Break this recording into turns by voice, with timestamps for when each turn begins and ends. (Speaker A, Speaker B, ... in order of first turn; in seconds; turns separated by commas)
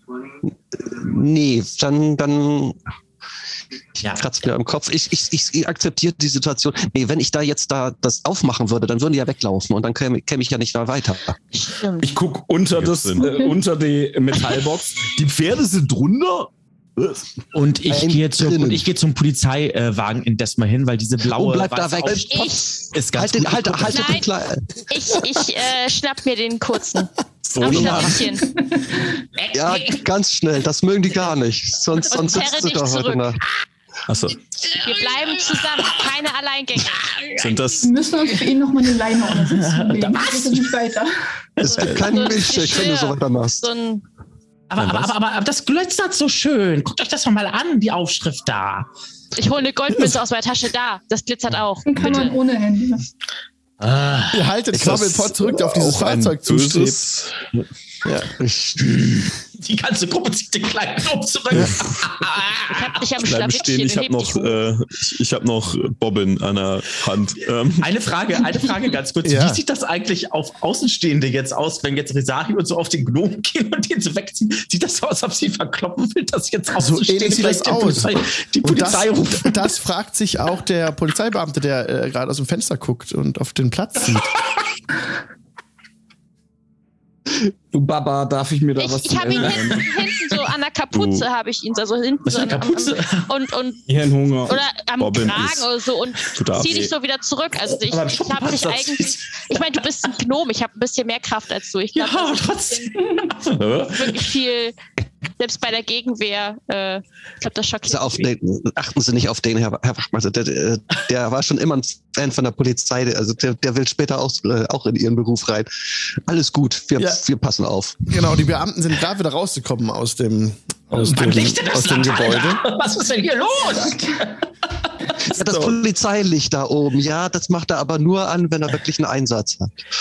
Speaker A: 0.5-2.8, Speaker A: 4.0-11.4, Speaker B: 11.5-12.1, Speaker C: 12.0-17.2, Speaker D: 12.7-13.3, Speaker E: 13.2-13.5, Speaker F: 17.5-22.4, Speaker A: 17.9-18.9, Speaker A: 21.2-24.9, Speaker B: 22.1-22.9, Speaker F: 22.9-24.1, Speaker B: 23.8-24.3, Speaker B: 24.9-28.5, Speaker D: 27.5-28.2, Speaker A: 27.6-28.2, Speaker E: 28.7-29.1, Speaker F: 29.4-30.0, Speaker A: 29.5-33.4, Speaker B: 32.1-33.3, Speaker D: 34.1-34.4, Speaker F: 34.7-35.0, Speaker B: 34.8-37.6, Speaker F: 37.2-37.6, Speaker D: 37.4-37.9, Speaker E: 37.8-41.1, Speaker F: 39.3-40.7, Speaker F: 41.6-42.1, Speaker A: 41.6-43.7, Speaker B: 41.9-44.0, Speaker F: 44.7-48.9, Speaker D: 44.8-45.1, Speaker B: 49.4-52.4, Speaker E: 51.9-53.0, Speaker F: 53.8-54.4, Speaker G: 54.3-57.1, Speaker A: 54.7-55.5, Speaker D: 54.8-57.4, Speaker G: 58.0-58.3, Speaker A: 58.4-59.0, Speaker F: 58.8-63.0, Speaker B: 62.6-64.6, Speaker D: 63.2-67.9, Speaker F: 67.8-79.7, Speaker G: 69.2-69.6, Speaker G: 76.8-84.3, Speaker C: 87.7-90.0, Speaker B: 88.8-93.8, Speaker D: 90.9-91.3, Speaker F: 92.2-93.3, Speaker C: 93.9-94.6, Speaker B: 94.5-102.9, Speaker D: 95.0-95.7, Speaker D: 96.3-96.9, Speaker F: 97.8-99.8, Speaker F: 102.0-104.2, Speaker B: 103.9-104.8, Speaker B: 105.4-108.2, Speaker A: 107.8-115.7, Speaker A: 116.2-118.4, Speaker G: 118.1-122.6, Speaker F: 120.9-124.4, Speaker A: 125.2-129.9, Speaker D: 125.4-125.8